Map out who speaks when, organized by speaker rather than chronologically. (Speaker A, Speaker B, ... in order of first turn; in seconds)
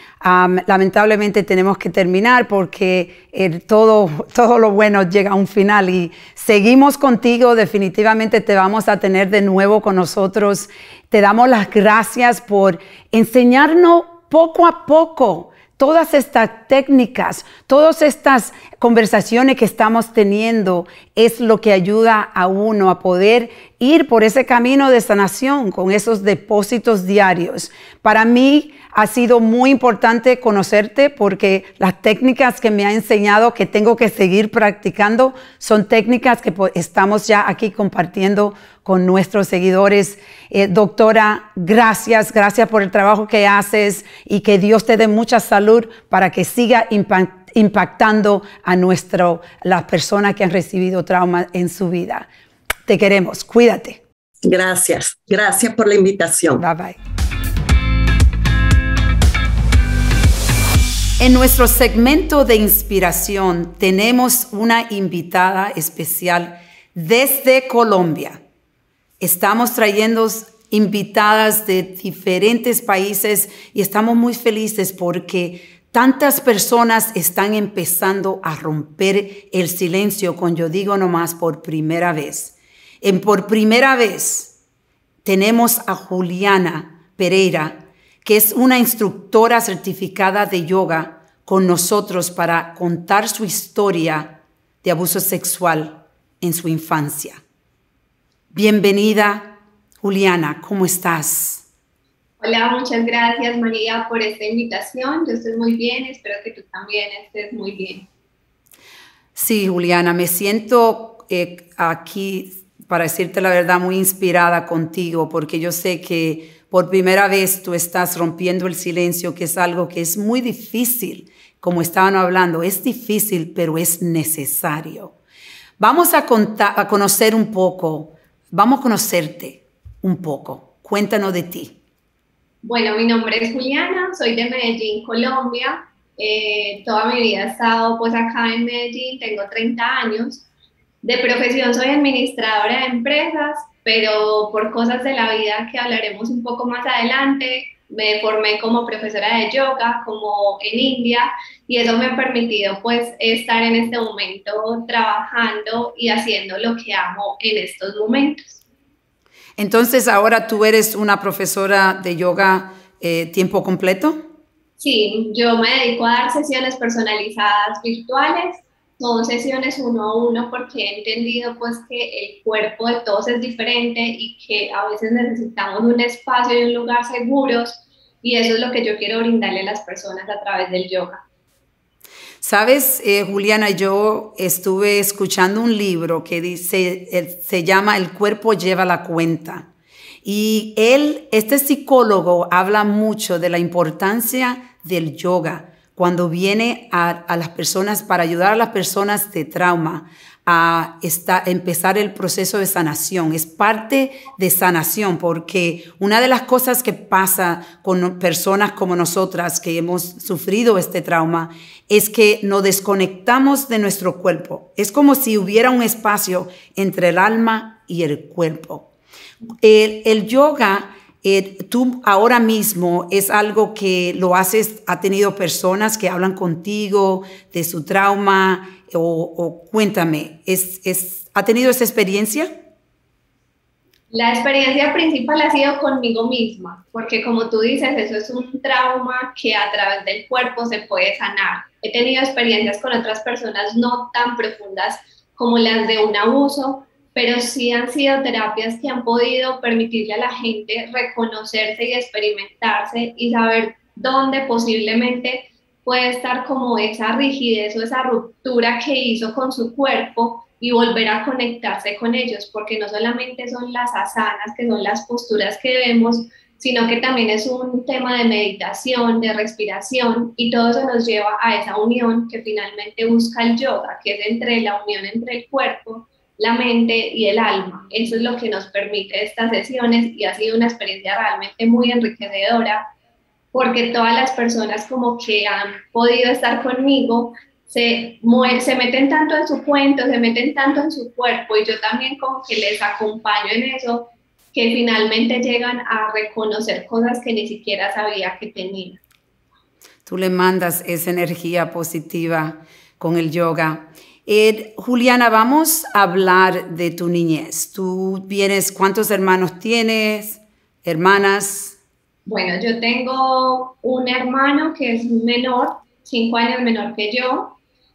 Speaker A: 0.2-52.3, 52.9-54.0, 56.6-57.0, 61.2-68.4, 69.2-84.6, 85.2-97.4, 98.5-101.6, 109.3-125.1, 125.8-131.8, 159.6-164.2, 182.4-189.7, 190.2-218.9, 219.6-232.5, 300.1-311.8
Speaker B: 54.4-56.6
Speaker C: 102.4-108.1, 132.6-140.5, 141.0-158.6, 164.8-181.2, 234.1-282.9, 283.5-299.0, 312.2-317.6